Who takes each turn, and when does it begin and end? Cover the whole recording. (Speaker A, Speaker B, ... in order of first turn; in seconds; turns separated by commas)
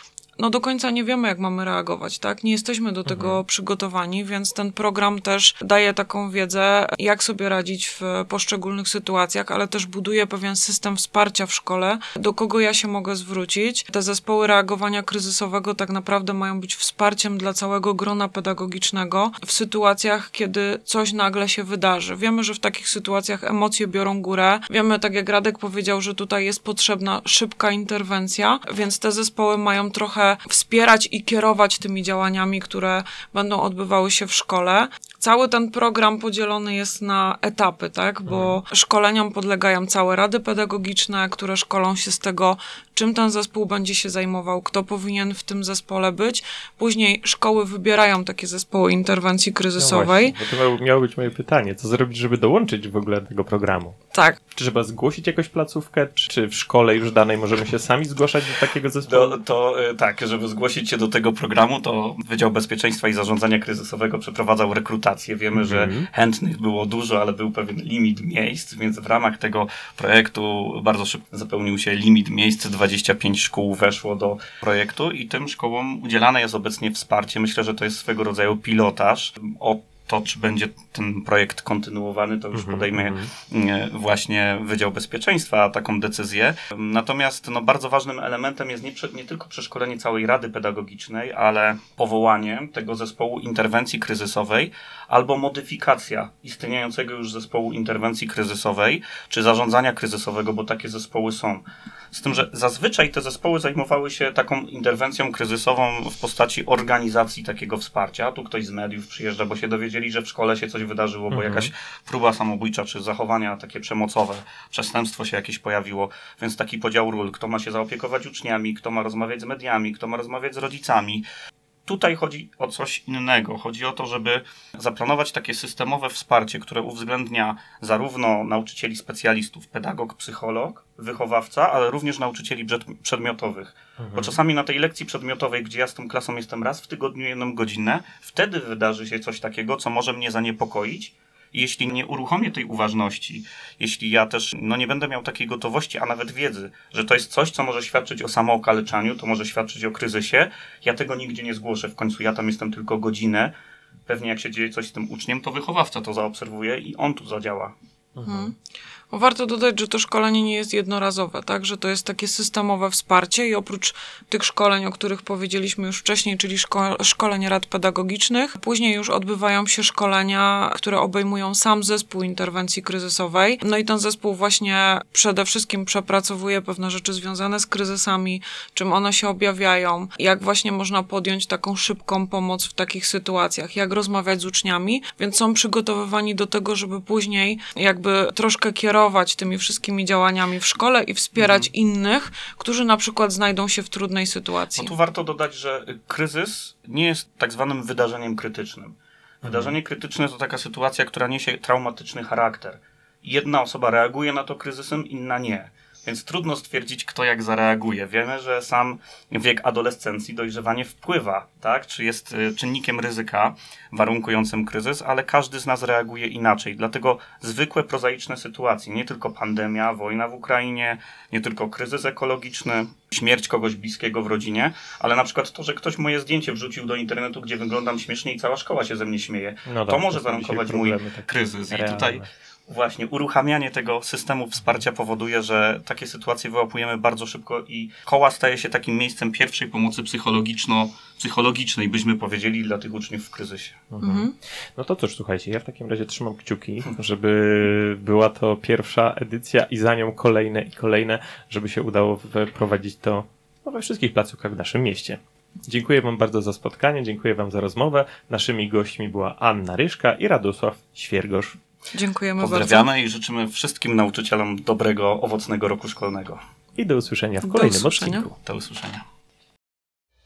Speaker A: 0.4-50.4, Speaker B: 3.1-3.4, Speaker B: 38.3-38.6, Speaker B: 49.8-54.0, Speaker A: 54.1-54.4, Speaker B: 54.5-59.4, Speaker C: 59.1-121.2, Speaker B: 65.5-66.1, Speaker B: 82.5-83.3, Speaker B: 111.3-111.7, Speaker C: 121.9-153.5, Speaker B: 134.0-134.4, Speaker C: 154.1-157.7, Speaker B: 158.2-158.5, Speaker A: 158.2-158.5, Speaker A: 159.1-194.9, Speaker C: 191.4-191.7, Speaker C: 194.8-243.8, Speaker B: 199.4-199.8, Speaker B: 229.7-232.3, Speaker B: 243.9-261.6, Speaker A: 244.0-244.3, Speaker A: 261.9-262.9, Speaker C: 262.4-266.4, Speaker B: 266.8-268.3, Speaker A: 267.4-268.3, Speaker C: 268.4-269.0